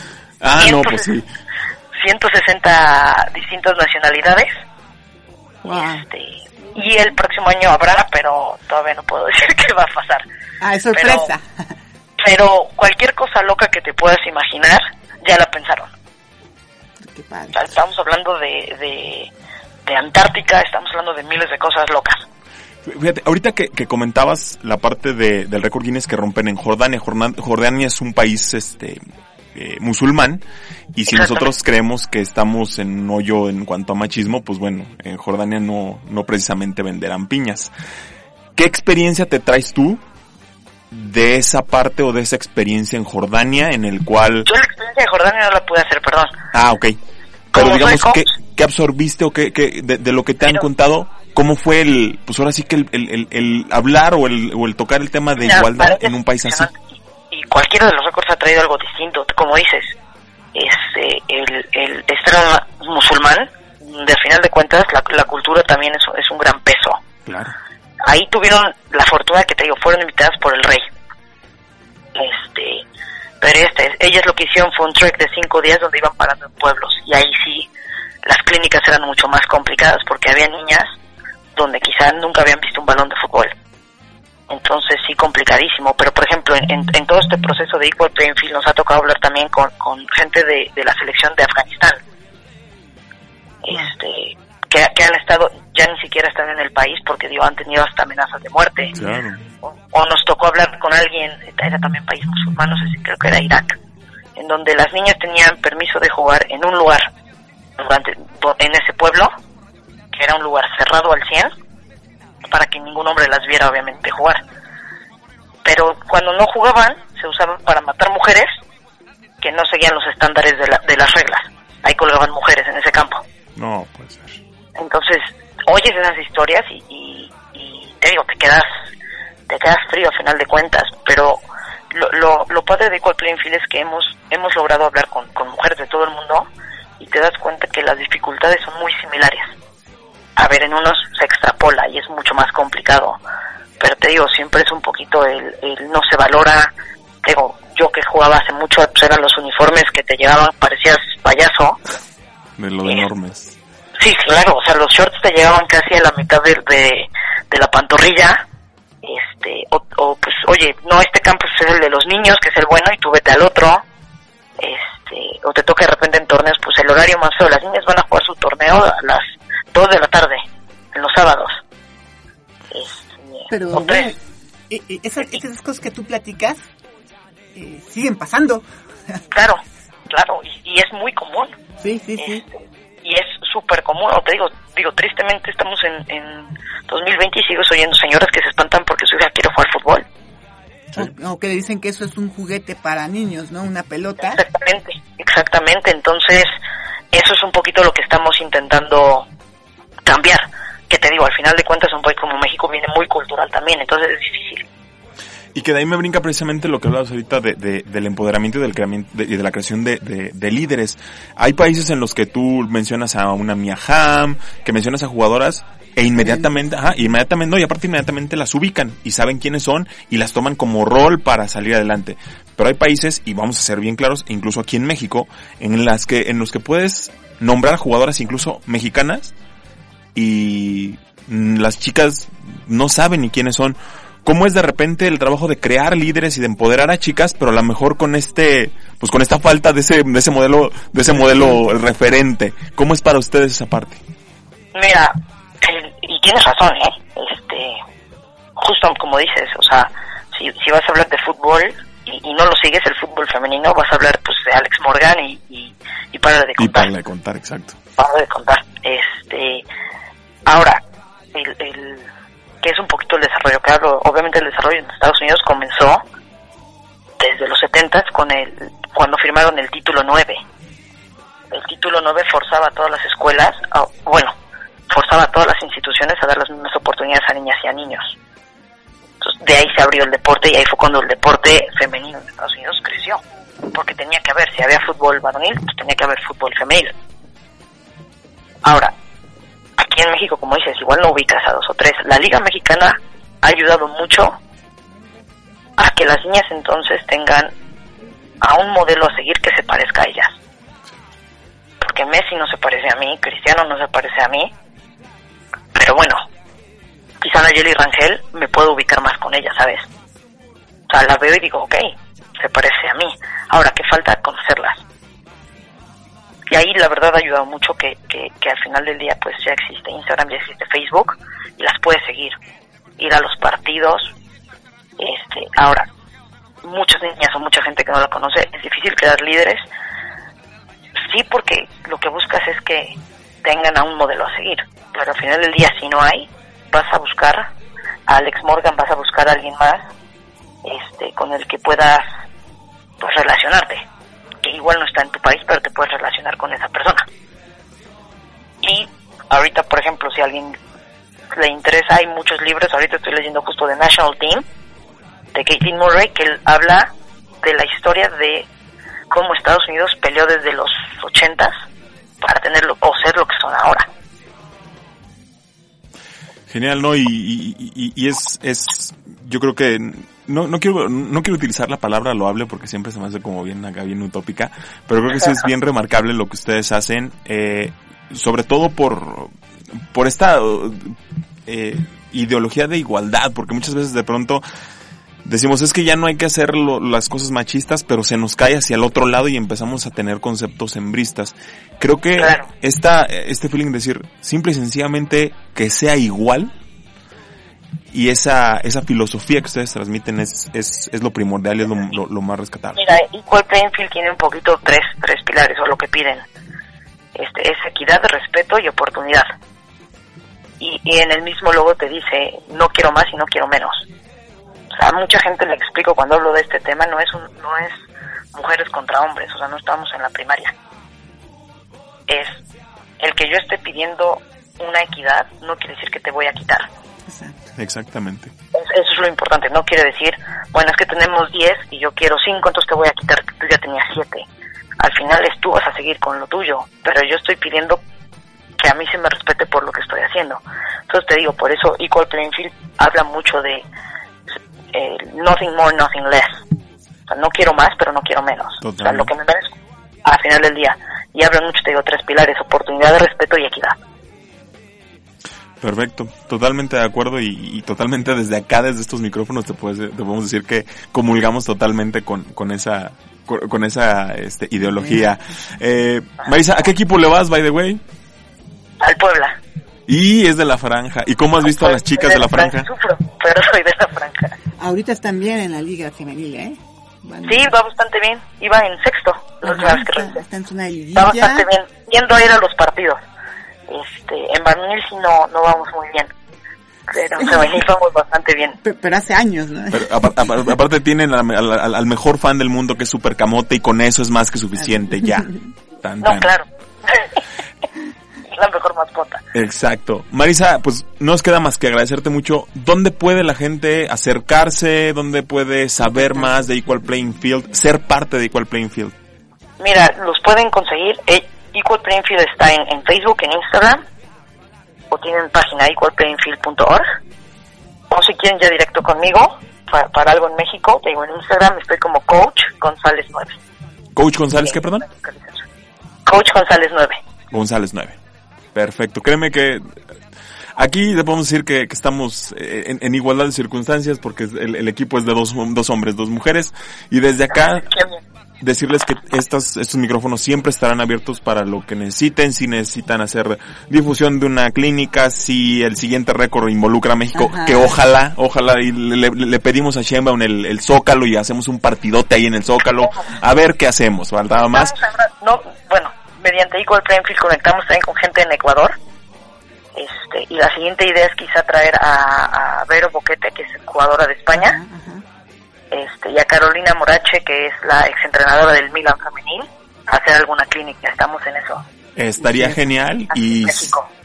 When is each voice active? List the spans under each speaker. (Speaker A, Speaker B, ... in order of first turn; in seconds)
Speaker A: 0.4-1.3, 22.9-29.0, 29.5-30.4, 30.9-37.7, 38.6-40.0, 40.9-44.5, 46.5-47.0, 47.5-56.7, 67.3-67.5, 99.0-99.4, 123.6-124.4, 152.6-153.6, 205.6-229.3, 230.1-244.0, 256.6-257.8, 366.5-379.3, 379.9-384.4, 385.2-396.5, 397.9-403.0, 427.6-428.3, 448.6-449.1, 455.6-467.8, 469.9-472.7, 489.7-496.3, 499.3-508.9, 524.0-524.9, 527.3-528.0, 528.5-529.6, 530.6-537.8, 538.4-554.8, 572.0-573.7
Speaker B: 0.6-1.1, 2.0-4.5, 5.7-10.2, 10.9-11.3, 12.2-15.9, 17.5-19.3, 19.9-22.2, 31.1-31.5, 44.5-46.3, 47.5-48.2, 55.4-56.8, 57.3-59.9, 60.5-67.0, 68.0-70.9, 72.1-72.8, 73.4-77.7, 78.2-80.9, 81.5-83.5, 84.5-92.0, 93.6-99.0, 99.7-103.8, 104.4-107.1, 107.8-109.3, 110.1-111.5, 112.5-114.4, 115.6-118.5, 119.4-123.2, 124.8-128.7, 129.5-136.5, 137.0-139.5, 140.4-143.2, 143.8-146.7, 147.2-151.8, 154.0-158.4, 159.0-163.8, 164.6-170.4, 170.9-171.6, 172.7-174.1, 179.3-181.6, 182.2-182.5, 183.0-190.1, 194.3-196.5, 197.1-199.3, 200.1-204.6, 244.7-247.8, 248.6-256.9, 258.0-259.6, 260.5-260.8, 261.3-262.1, 262.6-266.0, 267.2-270.4, 271.5-274.3, 274.9-278.2, 279.2-283.2, 283.7-286.9, 288.6-288.9, 289.8-294.4, 295.8-297.5, 298.4-300.4, 301.8-304.5, 305.8-306.2, 307.2-309.9, 310.9-314.8, 316.5-322.4, 323.0-324.1, 325.0-325.9, 326.6-329.6, 331.1-337.5, 338.1-339.8, 340.6-342.1, 343.0-343.8, 344.4-347.1, 348.6-350.6, 351.3-354.4, 355.3-358.5, 359.1-361.5, 362.2-363.9, 392.2-392.4, 402.8-406.2, 407.1-409.3, 410.6-413.9, 414.7-417.8, 418.3-420.5, 422.1-422.4, 423.0-426.7, 428.6-434.3, 434.8-437.8, 438.6-443.6, 444.7-446.4, 447.1-449.5, 450.1-453.8, 468.8-469.4, 471.4-474.4, 477.3-480.2, 481.0-483.0, 483.7-486.1, 486.9-488.6, 496.0-497.2, 498.3-499.2, 509.6-513.8, 514.9-516.9, 517.9-523.4, 524.5-525.4, 526.1-527.0, 537.5-538.0, 554.4-558.8, 559.8-564.6, 565.7-571.6, 573.1-573.9
Speaker C: 5.6-6.0, 10.6-11.4, 17.1-17.7, 173.5-174.2, 174.7-176.6, 177.6-178.6, 181.8-182.4, 190.9-194.4, 427.1-427.4, 474.6-477.5, 479.4-481.5, 487.2-487.6, 488.6-489.9, 547.1-547.8, 564.3-565.0, 572.2-572.6